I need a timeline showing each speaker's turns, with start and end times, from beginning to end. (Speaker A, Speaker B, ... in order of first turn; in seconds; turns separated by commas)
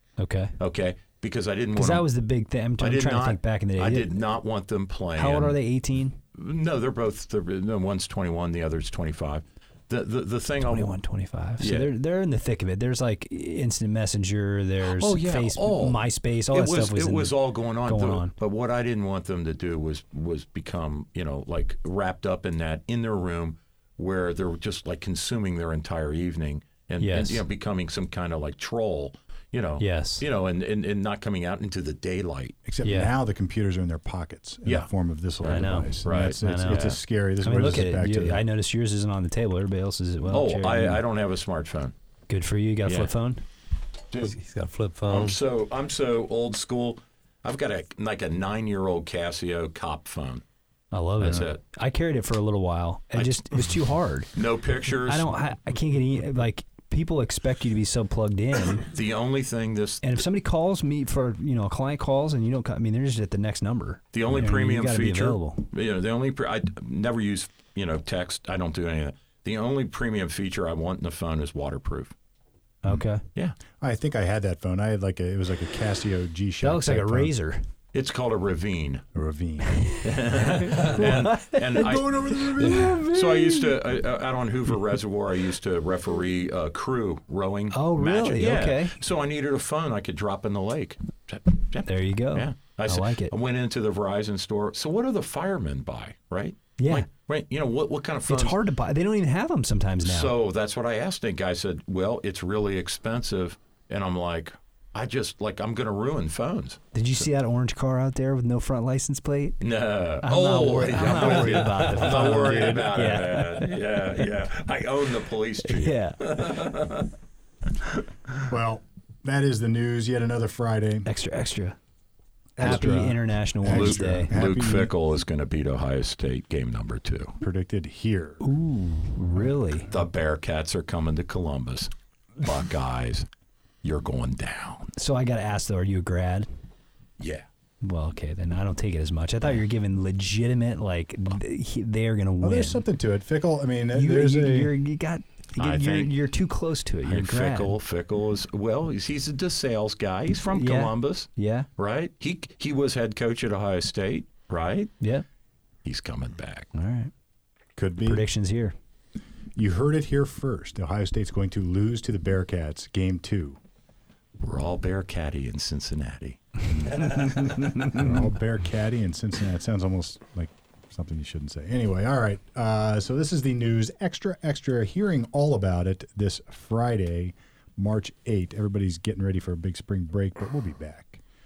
Speaker A: 0.2-0.6, Speaker B: 0.6-2.1, Speaker A: 1.7-4.2, Speaker B: 2.8-5.6, Speaker A: 5.2-6.2, Speaker B: 6.3-11.0, Speaker A: 10.6-18.3, Speaker B: 11.6-11.9, Speaker B: 14.8-32.6, Speaker A: 27.0-27.4, Speaker A: 29.8-30.2, Speaker C: 32.6-38.4, Speaker A: 32.8-33.1, Speaker B: 34.6-37.0, Speaker A: 35.4-41.0, Speaker B: 40.3-41.9, Speaker A: 42.3-43.4, Speaker B: 42.9-43.1, Speaker B: 44.1-44.4, Speaker D: 44.2-45.4, Speaker B: 45.1-50.4, Speaker A: 50.9-54.4, Speaker B: 51.2-51.6, Speaker B: 53.1-53.8, Speaker B: 54.3-55.3, Speaker A: 54.9-58.9, Speaker B: 58.9-60.2, Speaker A: 60.0-65.7, Speaker B: 64.1-72.1, Speaker A: 72.8-73.2, Speaker C: 73.8-77.3, Speaker A: 76.6-77.6, Speaker B: 77.9-79.0, Speaker C: 79.1-79.9, Speaker A: 79.8-83.8, Speaker B: 80.0-98.6, Speaker D: 82.6-83.0, Speaker A: 87.7-89.0, Speaker A: 91.8-93.3, Speaker A: 96.8-97.1, Speaker A: 98.3-100.3, Speaker B: 100.0-106.9, Speaker A: 106.9-109.6, Speaker B: 109.6-117.1, Speaker A: 110.2-114.3, Speaker C: 111.1-112.4, Speaker D: 111.6-112.3, Speaker A: 115.6-116.7, Speaker C: 118.4-121.1, Speaker A: 121.1-121.8, Speaker C: 122.6-124.9, Speaker A: 122.6-124.3, Speaker B: 122.6-122.9, Speaker B: 123.6-127.4, Speaker C: 127.4-128.4, Speaker A: 128.4-129.9, Speaker B: 129.9-133.3, Speaker B: 133.8-134.9, Speaker A: 134.9-136.5, Speaker B: 137.2-137.5, Speaker A: 137.8-142.8, Speaker C: 142.4-144.8, Speaker A: 143.9-147.7, Speaker B: 145.6-146.1, Speaker B: 147.0-154.9, Speaker A: 150.5-151.7, Speaker B: 155.8-156.7, Speaker A: 156.7-157.1, Speaker C: 157.8-158.3, Speaker A: 158.1-158.7, Speaker C: 159.6-163.6, Speaker B: 164.4-167.1, Speaker C: 166.7-181.2, Speaker A: 167.2-168.1